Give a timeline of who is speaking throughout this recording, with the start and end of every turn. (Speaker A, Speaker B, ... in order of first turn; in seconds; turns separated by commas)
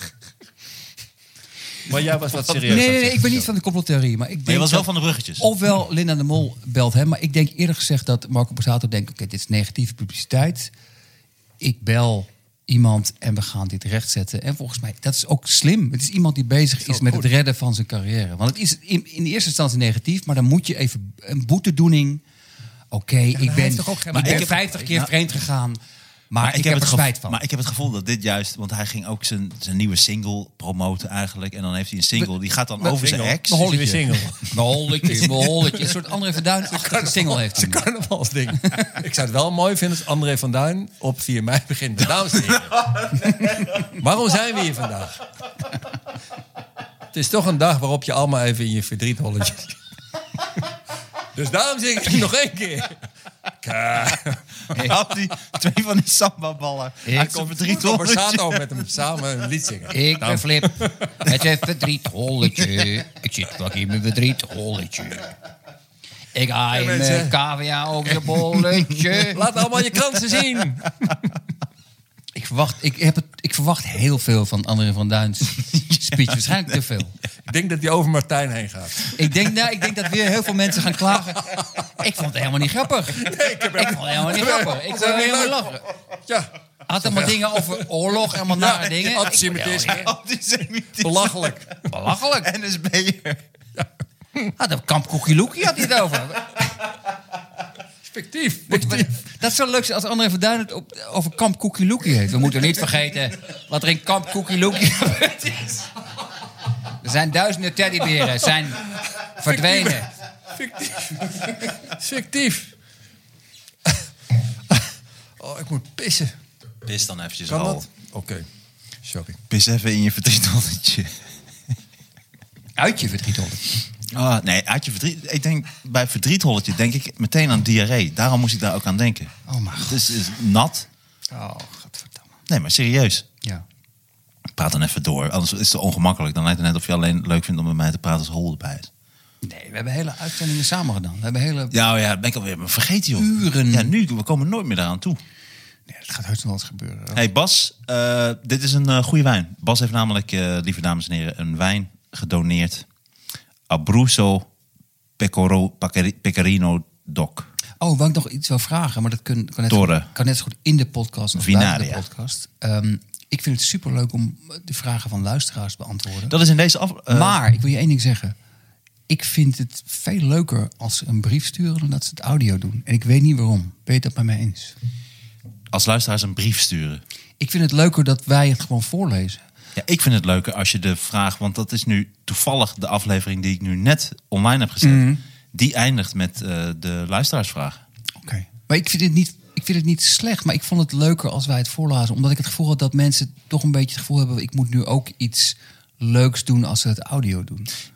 Speaker A: 1.9-3.5, Speaker B: 2.6-10.7, Speaker C: 4.5-5.5, Speaker B: 11.6-22.2, Speaker A: 16.8-17.3, Speaker B: 22.9-25.8, Speaker A: 23.3-24.9, Speaker C: 24.1-25.1, Speaker B: 26.3-27.4, Speaker C: 26.4-33.8, Speaker A: 32.8-36.0, Speaker B: 33.6-37.9, Speaker A: 36.6-45.2, Speaker B: 38.6-38.9, Speaker A: 47.1-49.8, Speaker A: 51.3-53.0, Speaker A: 53.6-54.8, Speaker C: 54.7-58.7, Speaker B: 57.0-57.4, Speaker A: 57.1-61.5, Speaker B: 59.9-65.3, Speaker B: 66.3-69.4, Speaker A: 66.7-67.4, Speaker A: 68.1-71.3, Speaker B: 72.3-77.1, Speaker A: 77.5-79.2, Speaker B: 79.1-85.8, Speaker A: 83.1-85.7, Speaker A: 86.3-90.1, Speaker B: 86.9-90.0, Speaker C: 89.8-91.8, Speaker A: 91.0-91.7, Speaker B: 91.9-92.5, Speaker C: 92.3-93.4, Speaker A: 93.8-94.5, Speaker B: 94.6-96.7, Speaker A: 98.0-99.1, Speaker B: 98.7-105.9, Speaker B: 107.0-110.1, Speaker A: 109.4-112.7, Speaker A: 114.7-116.3, Speaker C: 116.8-117.8, Speaker A: 117.5-118.5, Speaker A: 119.0-119.4, Speaker C: 119.5-121.1, Speaker B: 122.8-123.7, Speaker C: 124.1-129.3, Speaker B: 129.5-130.1, Speaker C: 129.8-130.9, Speaker B: 131.3-132.3, Speaker C: 132.5-133.2, Speaker C: 134.6-138.9, Speaker B: 139.4-141.7, Speaker C: 141.7-145.2, Speaker B: 143.2-143.9, Speaker B: 145.9-147.2, Speaker C: 147.1-152.8, Speaker C: 153.7-154.5, Speaker C: 155.2-157.5, Speaker B: 157.8-166.3, Speaker C: 159.7-160.1, Speaker C: 161.3-162.0, Speaker C: 166.3-167.4, Speaker B: 167.1-168.3, Speaker B: 169.1-174.8, Speaker C: 175.7-177.0, Speaker B: 177.4-179.4, Speaker C: 179.8-187.8, Speaker B: 184.8-185.2, Speaker B: 188.2-197.7